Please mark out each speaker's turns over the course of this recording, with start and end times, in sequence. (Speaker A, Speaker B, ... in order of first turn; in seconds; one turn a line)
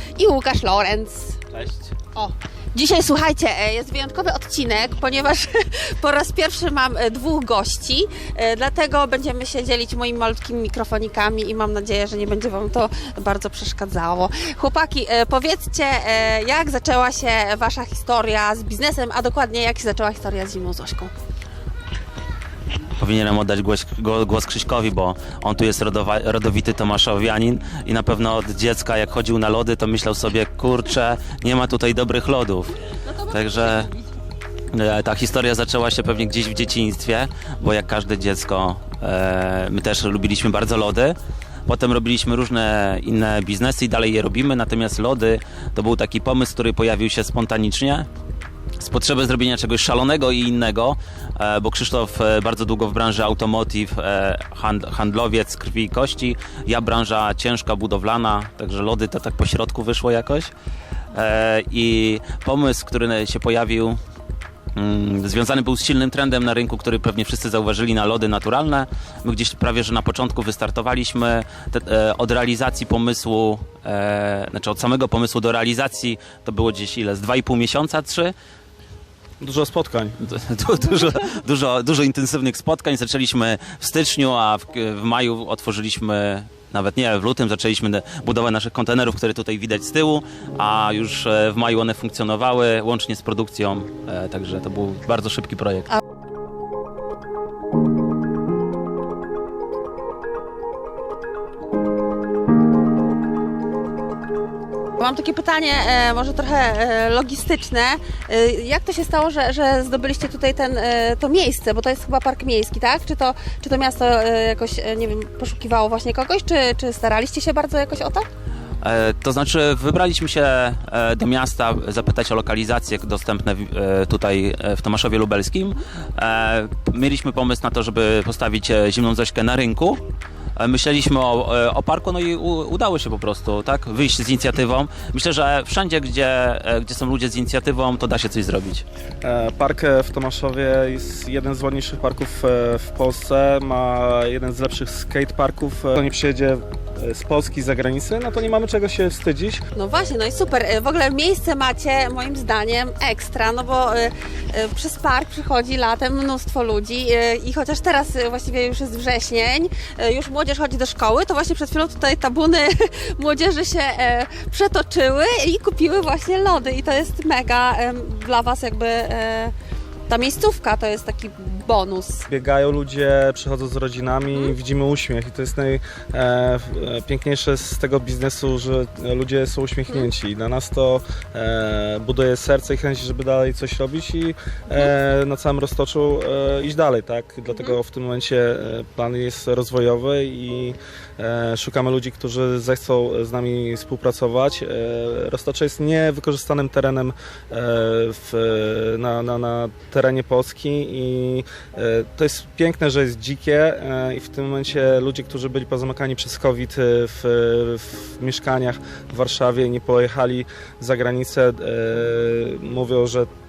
Speaker A: 0.1-1.4
Speaker B: 1.5-1.9
Speaker A: 2.1-21.1
Speaker B: 23.0-33.9
Speaker A: 33.0-34.1
Speaker B: 34.7-48.1
Speaker B: 48.8-60.5
Speaker B: 61.1-64.0
Speaker B: 64.8-78.3
Speaker C: 79.4-80.2
Speaker B: 80.2-95.9
Speaker A: 105.0-118.3
Speaker B: 118.8-130.0
Speaker B: 130.6-138.8
Speaker C: 139.2-149.6
Speaker A: 149.7-169.5
Speaker A: 170.1-172.3
Speaker C: 172.3-213.3